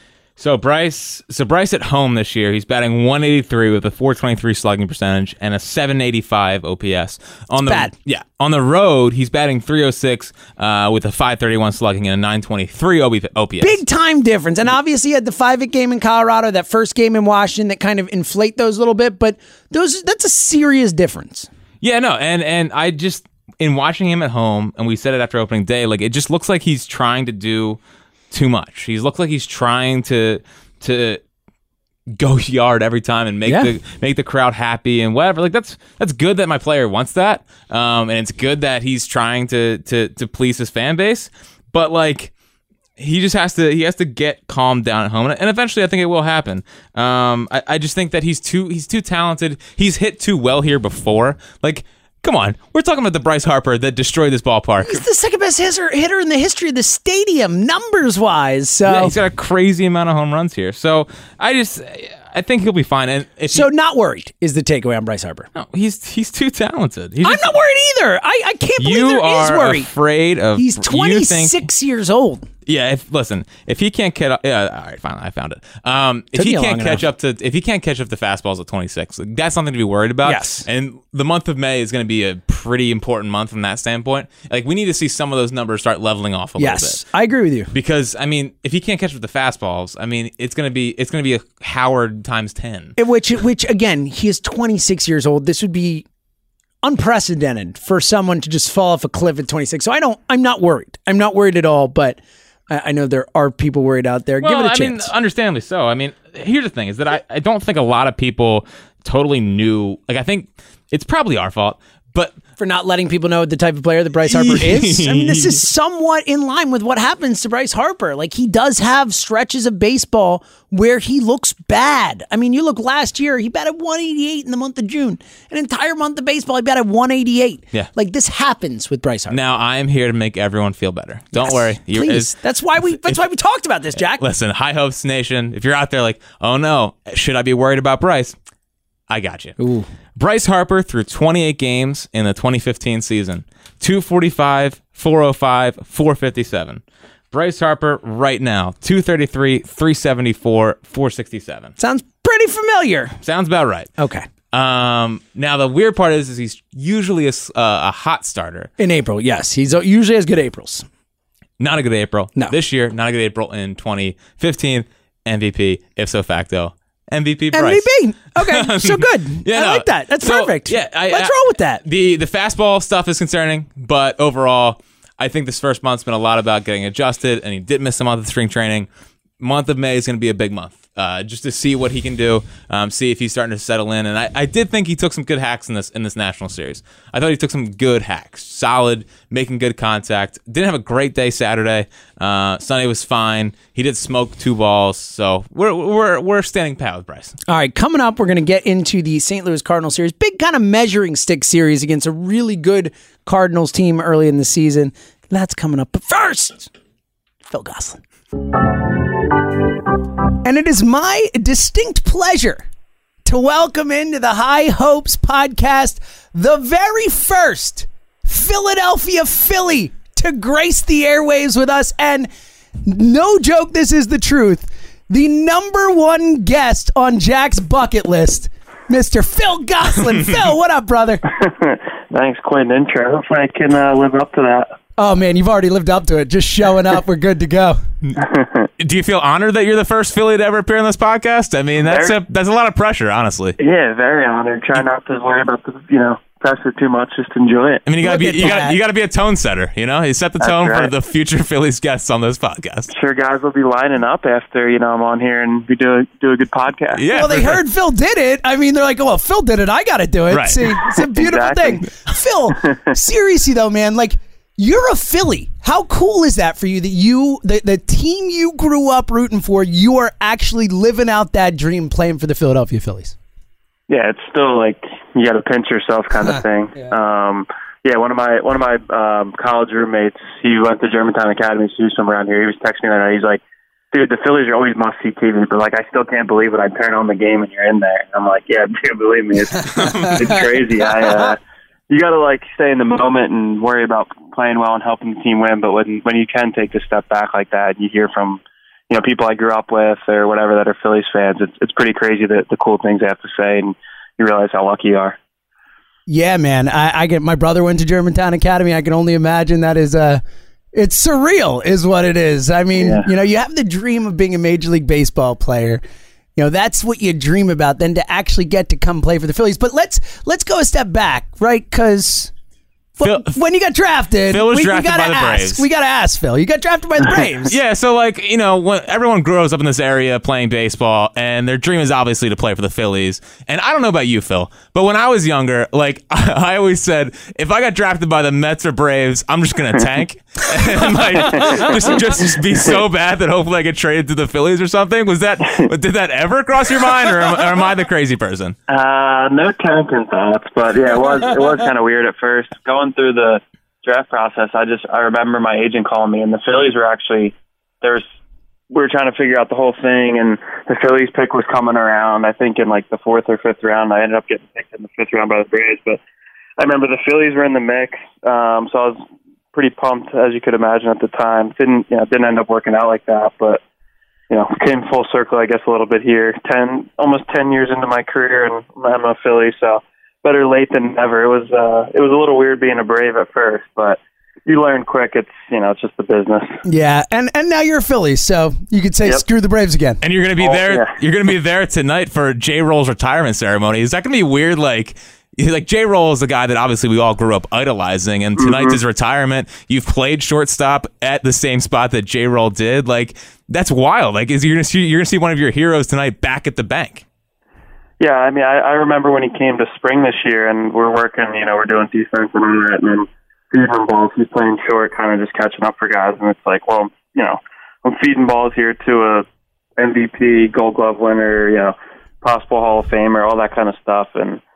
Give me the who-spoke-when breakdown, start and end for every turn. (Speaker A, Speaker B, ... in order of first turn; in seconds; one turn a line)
Speaker A: 0.4-13.8
Speaker B: 7.6-7.9
Speaker B: 13.6-21.5
Speaker A: 21.8-27.8
Speaker A: 28.3-31.2
Speaker A: 32.1-42.3
Speaker B: 33.5-33.7
Speaker A: 43.0-55.0
Speaker B: 54.8-59.1
Speaker A: 58.9-63.7
Speaker B: 63.5-65.5
Speaker A: 65.5-67.5
Speaker B: 67.2-69.9
Speaker A: 68.8-71.6
Speaker B: 70.5-72.5
Speaker A: 72.7-87.0
Speaker B: 76.3-77.0
Speaker B: 80.2-80.7
Speaker B: 86.6-87.7
Speaker A: 87.7-92.9
Speaker B: 93.0-96.0
Speaker B: 96.8-105.1
Speaker A: 104.4-112.4
Speaker B: 112.6-129.4
Speaker A: 114.2-115.6
Speaker A: 129.3-132.3
Speaker B: 131.3-134.2
Speaker A: 134.0-138.3
Speaker A: 139.1-139.6
Speaker B: 139.6-139.9
Speaker A: 140.2-151.7
Speaker B: 151.8-153.2
Speaker A: 153.2-153.9
Speaker B: 154.0-154.2
Speaker A: 154.5-158.7
Speaker B: 158.8-160.8
Speaker A: 161.6-178.9
Speaker B: 167.5-171.8
Speaker A: 179.4-197.3
Speaker B: 197.5-206.7
Speaker B: 207.4-208.0
Speaker B: 210.4-212.6
Speaker B: 213.2-222.3
Speaker B: 222.8-231.2
Speaker C: 231.3-234.7
Speaker B: 235.0-237.8
Speaker C: 238.2-238.7
Speaker A: 238.8-243.6
Speaker C: 241.8-242.1
Speaker C: 243.6-247.8
Speaker A: 247.8-252.9
Speaker B: 248.0-248.8
Speaker C: 250.4-250.9
Speaker C: 252.9-257.1
Speaker A: 256.9-257.6
Speaker B: 257.1-273.1
Speaker A: 260.3-260.7
Speaker C: 261.0-261.8
Speaker C: 273.9-305.2
Speaker A: 289.7-290.4
Speaker B: 306.1-310.2
Speaker B: 310.7-315.8
Speaker C: 312.8-313.1
Speaker B: 316.4-322.3
Speaker B: 323.0-327.6
Speaker A: 323.0-323.4
Speaker A: 324.3-325.6
Speaker A: 327.4-348.6
Speaker C: 341.3-341.8
Speaker C: 348.7-358.0
Speaker C: 358.7-366.0
Speaker C: 366.6-369.0
Speaker C: 369.5-373.6
Speaker C: 374.3-386.6
Speaker B: 386.6-390.0
Speaker A: 390.0-407.0
Speaker C: 390.4-390.9
Speaker C: 398.4-398.8
Speaker C: 408.0-419.2
Speaker C: 419.8-424.4